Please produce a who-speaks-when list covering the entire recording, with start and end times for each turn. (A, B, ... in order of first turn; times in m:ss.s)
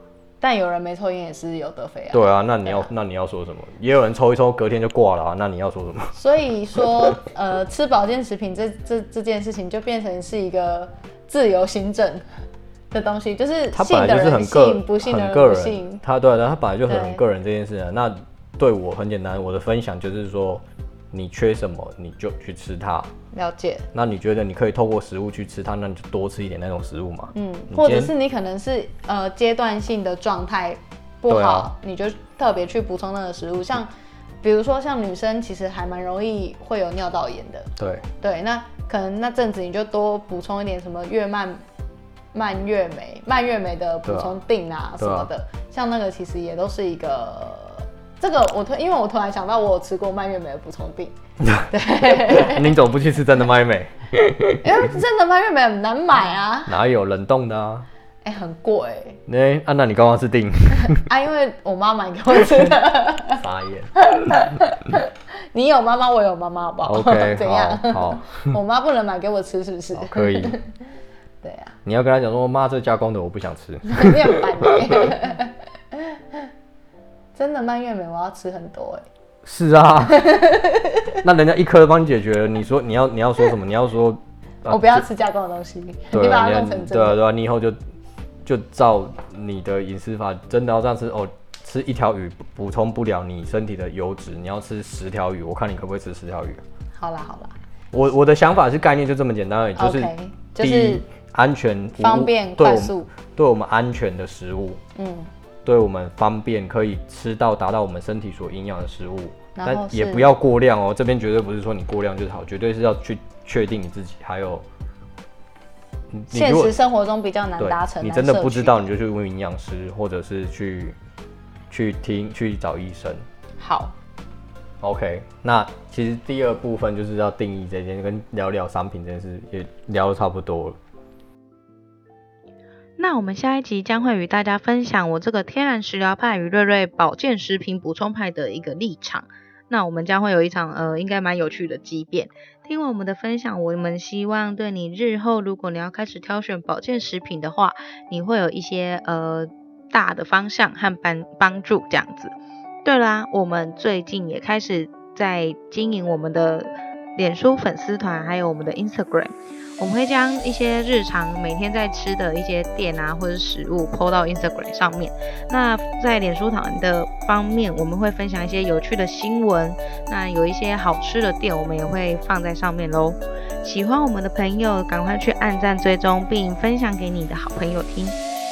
0:00.4-0:02.9 A
0:02.1-0:06.2 B
0:06.2-0:12.2 A
0:12.9-0:16.0 A
0:13.7-0:23.1 B
0:16.9-0:17.2 A
0:23.3-0:23.9 A
0:23.9-0:28.1 B
0:27.3-0:33.9 A
0:31.3-0:31.7 B
0:34.4-0:41.6 A
0:37.8-0:38.0 B
0:42.3-0:52.8 A
0:44.1-0:44.4 B
0:45.0-0:45.3 B
0:51.4-0:54.7 B
0:54.6-0:56.8 A
0:56.7-0:57.9 B
0:58.2-0:59.2 A
0:59.3-1:01.1 B
1:00.8-1:03.4 A
1:03.3-1:03.9 B
1:04.0-1:10.7 A
1:06.8-1:08.6 B
1:09.9-1:10.6 B
1:11.4-1:11.8 A
1:11.8-1:15.0 B
1:13.8-1:16.5 A
1:17.4-1:19.1 A
1:19.4-1:20.3 B
1:20.1-1:21.2 A
1:21.2-1:25.1 B
1:24.7-1:27.2 A
1:26.1-1:27.8 B
1:28.4-1:36.6 B
1:37.0-1:37.5 A
1:37.9-1:44.8 B
1:39.8-1:41.0 A
1:42.0-1:43.1 A
1:45.0-1:45.3 A
1:45.6-1:54.7 B
1:49.6-1:50.3 A
1:56.1-1:56.8 B
1:56.3-1:58.8 A
1:57.6-2:01.0 B
2:01.7-2:03.2 B
2:03.6-2:04.0 A
2:04.8-2:10.8 B
2:13.0-2:32.3 C
2:32.8-2:58.2 C